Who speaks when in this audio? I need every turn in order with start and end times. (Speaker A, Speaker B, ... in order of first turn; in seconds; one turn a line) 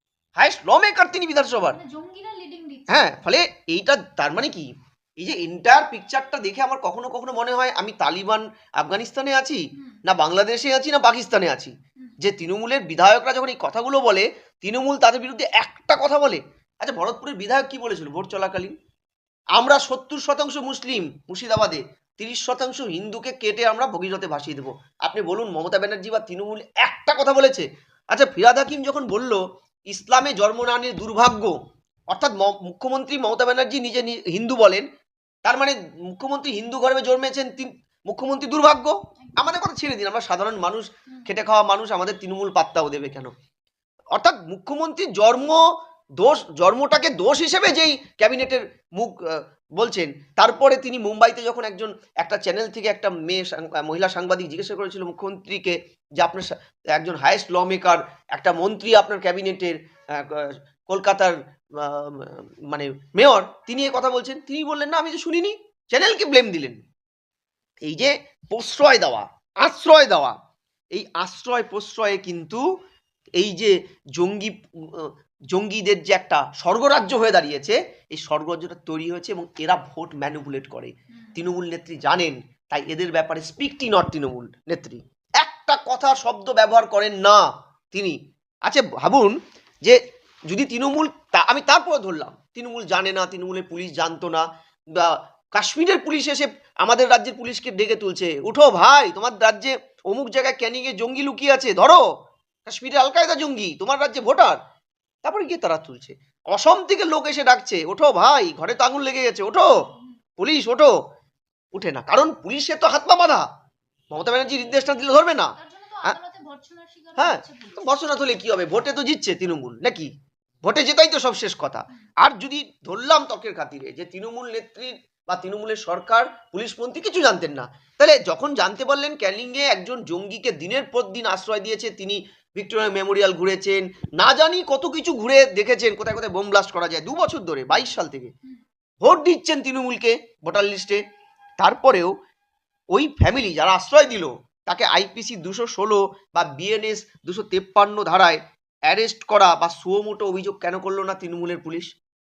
Speaker A: 0.3-1.8
Speaker B: 1.6-3.2
Speaker A: 2.9-18.7
Speaker A: 19.6-31.6
Speaker A: 32.1-34.9
Speaker A: 35.4-43.3
Speaker B: 39.3-39.6
Speaker A: 44.1-45.6
Speaker A: 46.2-66.8
Speaker A: 67.8-70.3
Speaker A: 70.9-72.6
Speaker A: 73.4-102.0
Speaker A: 102.7-104.6
Speaker A: 105.2-109.8
Speaker A: 110.4-110.9
Speaker A: 111.7-113.5
Speaker A: 114.1-116.2
Speaker B: 115.6-117.9
Speaker A: 117.2-120.1
Speaker A: 120.6-138.3
Speaker A: 139.0-141.0
Speaker A: 141.6-142.1
Speaker A: 142.9-151.9